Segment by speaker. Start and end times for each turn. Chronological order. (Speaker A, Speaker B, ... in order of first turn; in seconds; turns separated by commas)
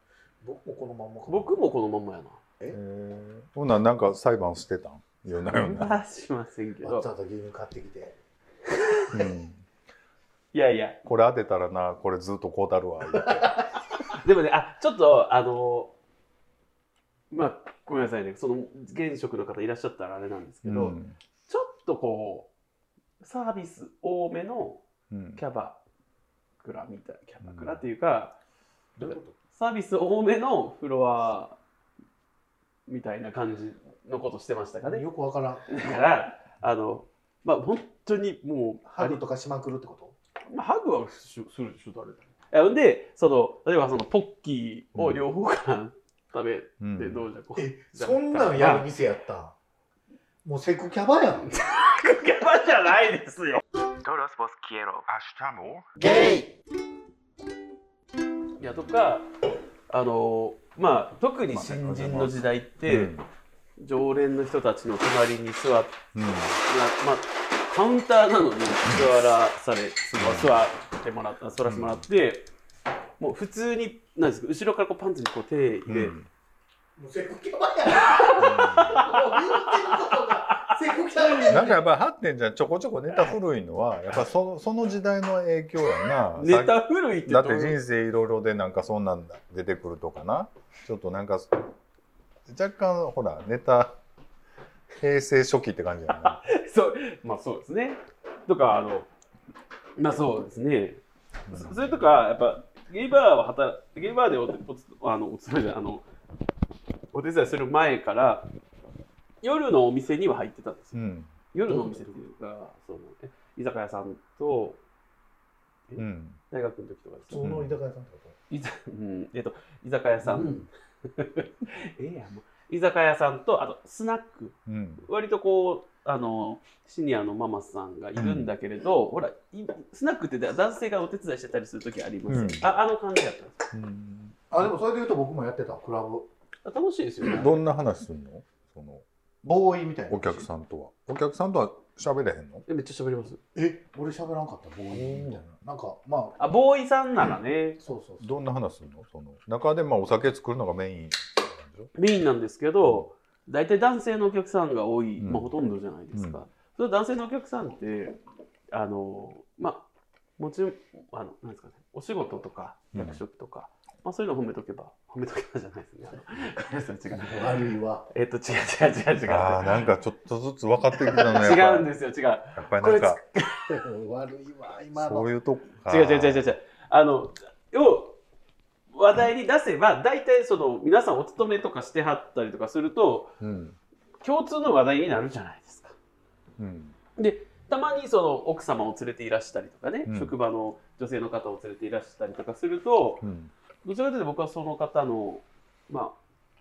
Speaker A: 0.4-1.6, Speaker B: 1.3-2.4, Speaker C: 2.7-6.0, Speaker B: 5.4-7.1, Speaker A: 6.8-8.2, Speaker C: 9.1-9.6, Speaker B: 10.5-11.0, Speaker C: 11.1-13.7, Speaker A: 13.2-13.7, Speaker B: 14.2-15.9, Speaker B: 17.3-22.5, Speaker C: 20.6-21.2, Speaker B: 23.2-24.8, Speaker C: 25.1-25.4, Speaker B: 25.4-25.8, Speaker B: 26.6-28.4, Speaker C: 27.4-27.8, Speaker A: 29.0-29.4, Speaker B: 29.0-31.6, Speaker B: 32.9-35.0, Speaker A: 34.8-35.9, Speaker B: 35.7-39.2, Speaker A: 38.9-40.1, Speaker B: 40.5-48.9, Speaker C: 45.0-45.2, Speaker C: 46.8-47.2, Speaker A: 47.6-49.5, Speaker A: 50.4-51.5, Speaker B: 51.5-55.1, Speaker C: 55.1-55.9, Speaker B: 58.6-59.3, Speaker B: 59.9-63.1, Speaker C: 61.5-62.4, Speaker C: 62.9-63.3, Speaker B: 63.8-66.0, Speaker C: 66.2-66.6, Speaker B: 66.7-72.5, Speaker C: 70.2-70.5, Speaker C: 71.7-72.0, Speaker B: 73.2-76.2, Speaker C: 75.9-76.3, Speaker A: 77.0-81.9, Speaker B: 78.0-81.6, Speaker C: 78.4-79.1, Speaker C: 81.5-91.7, Speaker B: 86.4-87.8, Speaker C: 92.5-94.0, Speaker C: 95.0-96.4, Speaker B: 96.2-99.1, Speaker B: 100.0-106.0, Speaker C: 101.5-102.0, Speaker B: 107.1-108.5, Speaker B: 109.4-114.8, Speaker C: 110.9-111.3, Speaker A: 111.7-112.2, Speaker B: 115.9-117.5, Speaker C: 116.0-116.4, Speaker A: 117.3-118.4, Speaker C: 117.4-117.8, Speaker B: 118.5-133.6, Speaker A: 120.2-120.7, Speaker C: 124.7-125.0, Speaker C: 128.2-128.5, Speaker C: 132.3-132.7, Speaker C: 133.7-134.7, Speaker A: 134.5-136.3, Speaker B: 136.7-137.6, Speaker C: 137.3-139.0, Speaker A: 139.4-140.5, Speaker C: 140.1-142.7, Speaker B: 142.7-143.4, Speaker A: 143.6-146.4, Speaker B: 144.9-145.4, Speaker B: 146.4-147.8, Speaker A: 147.8-148.3, Speaker C: 148.2-151.9, Speaker B: 151.9-158.2, Speaker C: 152.8-153.1, Speaker C: 155.2-155.5, Speaker C: 156.1-156.4, Speaker B: 158.7-159.9, Speaker B: 160.4-169.9, Speaker C: 162.9-163.2, Speaker A: 167.1-168.1, Speaker C: 169.3-171.9, Speaker B: 171.1-173.7, Speaker C: 172.6-173.2, Speaker A: 173.7-175.3, Speaker C: 175.0-176.5, Speaker B: 175.9-178.2, Speaker B: 178.9-183.3, Speaker C: 183.4-183.8, Speaker B: 184.2-186.0, Speaker C: 186.6-186.9, Speaker B: 187.2-193.3, Speaker C: 190.1-190.3, Speaker C: 193.2-193.5, Speaker B: 193.8-196.2